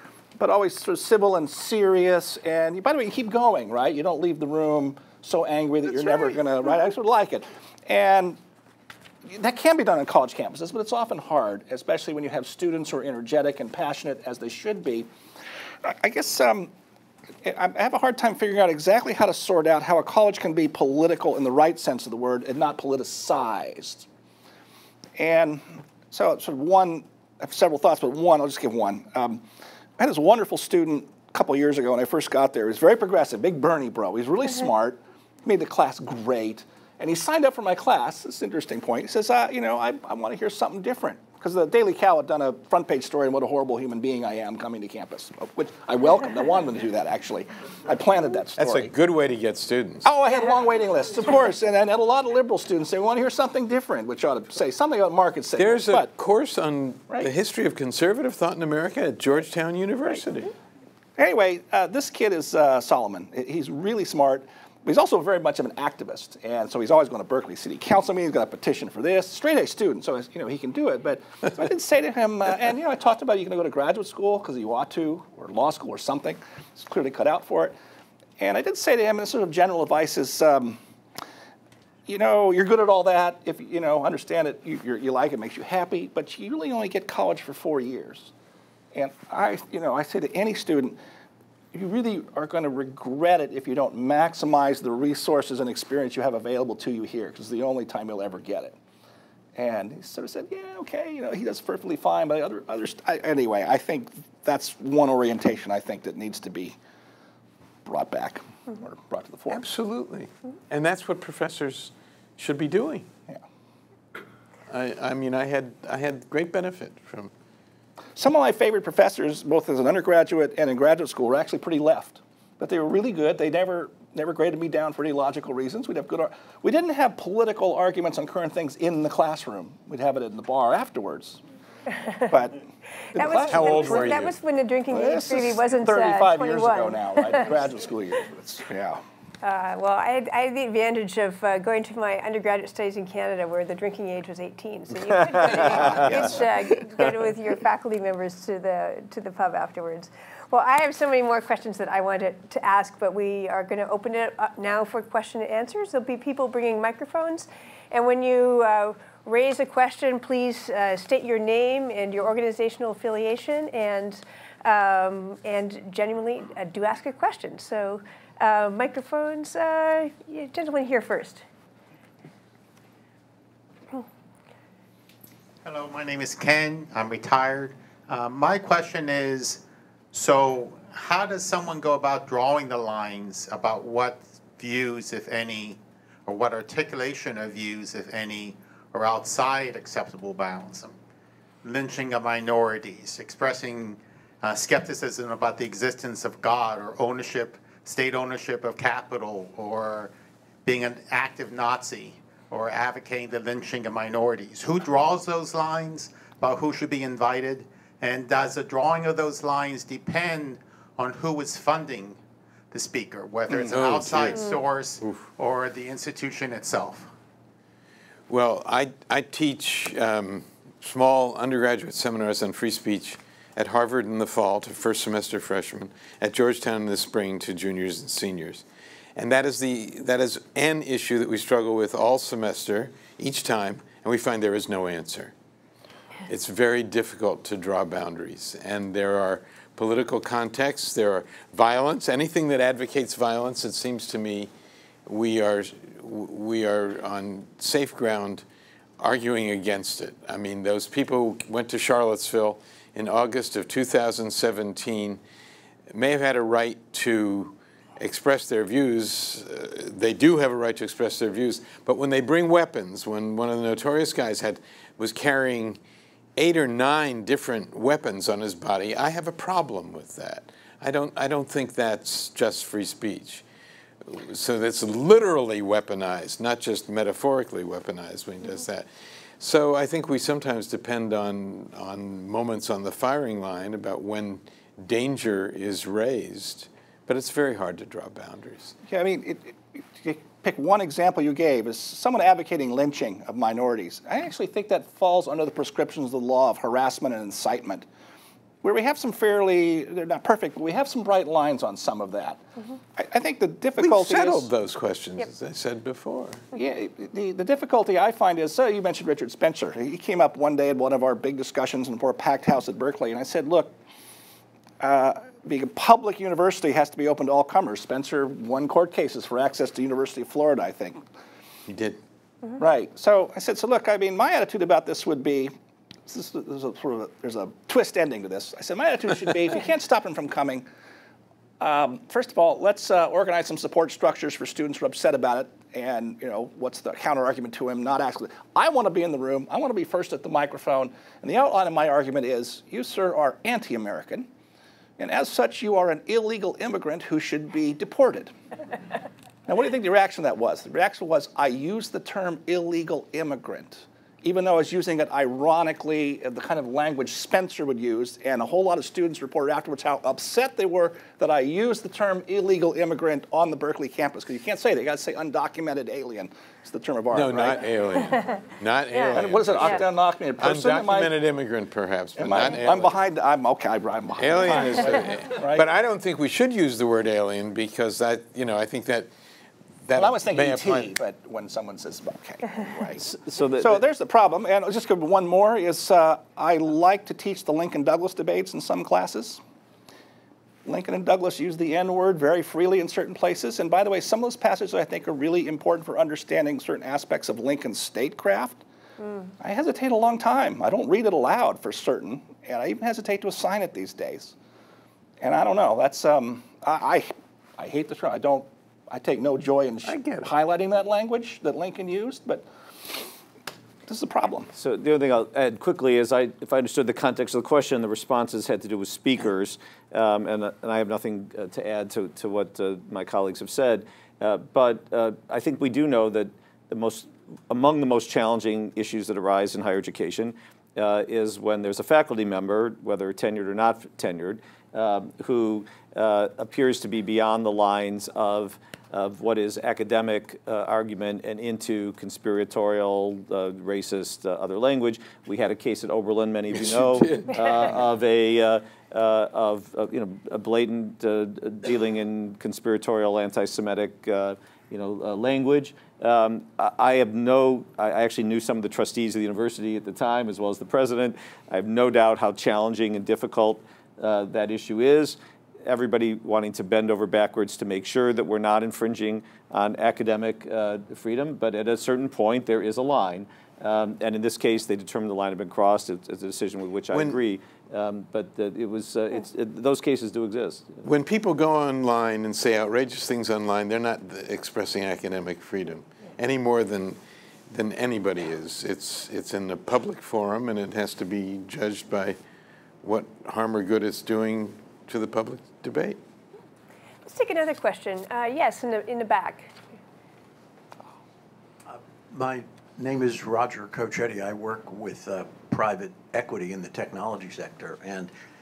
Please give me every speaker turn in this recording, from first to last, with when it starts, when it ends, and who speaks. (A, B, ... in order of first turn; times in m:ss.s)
0:00.4-0:08.4 A
0:09.3-0:15.1 A
0:15.8-0:16.7 A
0:17.4-0:24.1 A
0:25.2-0:29.4 A
0:30.0-0:48.9 A
0:48.6-0:50.1 B
0:50.0-0:56.1 A
0:55.6-1:00.5 B
1:01.2-1:17.7 A
1:18.4-1:20.8 A
1:22.1-1:28.3 A
1:28.9-1:31.0 A
1:31.7-1:38.8 A
1:39.6-1:46.8 A
1:47.8-1:49.6 A
1:49.5-1:53.1 B
1:54.7-1:57.3 B
1:58.2-2:11.4 A
2:12.3-2:12.6 A
2:13.1-2:17.4 C
2:13.1-2:14.2 A
2:13.5-2:14.4 B
2:14.9-2:19.0 A
2:19.4-2:51.4 C
2:25.5-2:26.1 D
2:55.6-3:11.0 E
3:11.6-3:20.1 E
3:20.6-3:32.2 E
3:32.7-3:37.1 E
3:33.5-3:34.4 B
3:35.0-3:35.3 B
3:38.3-3:48.6 B
3:49.2-3:55.3 B
3:56.3-4:04.5 B
4:05.1-4:08.4 B
4:09.0-4:15.2 B
4:15.9-4:25.8 B
4:26.4-4:33.4 B
4:34.0-4:38.9 B
4:39.4-4:48.8 B
4:48.9-4:57.8 A
4:58.6-5:02.4 A
5:03.0-5:04.5 A
5:03.8-5:06.4 B
5:06.5-5:13.7 A
5:14.8-5:21.0 A
5:21.7-5:22.0 B
5:22.6-5:25.5 A
5:26.1-5:30.6 A
5:31.6-5:44.3 A
5:45.0-5:48.3 A
5:49.5-6:07.7 A
6:07.1-6:13.0 B
6:09.1-6:11.1 A
6:12.2-6:15.7 A
6:14.2-6:19.1 B
6:19.8-6:20.9 B
6:19.9-6:29.4 A
6:23.0-6:23.8 D
6:30.6-6:38.6 A
6:39.4-6:44.3 A
6:45.2-6:52.4 A
6:49.8-6:50.3 B
6:53.9-6:54.5 A
6:54.5-8:00.8 D
7:26.5-7:27.6 B
7:56.9-7:57.2 B
8:00.8-8:07.0 B
8:07.5-8:12.2 B
8:12.8-8:16.0 B
8:17.0-8:19.5 C
8:21.7-8:28.1 F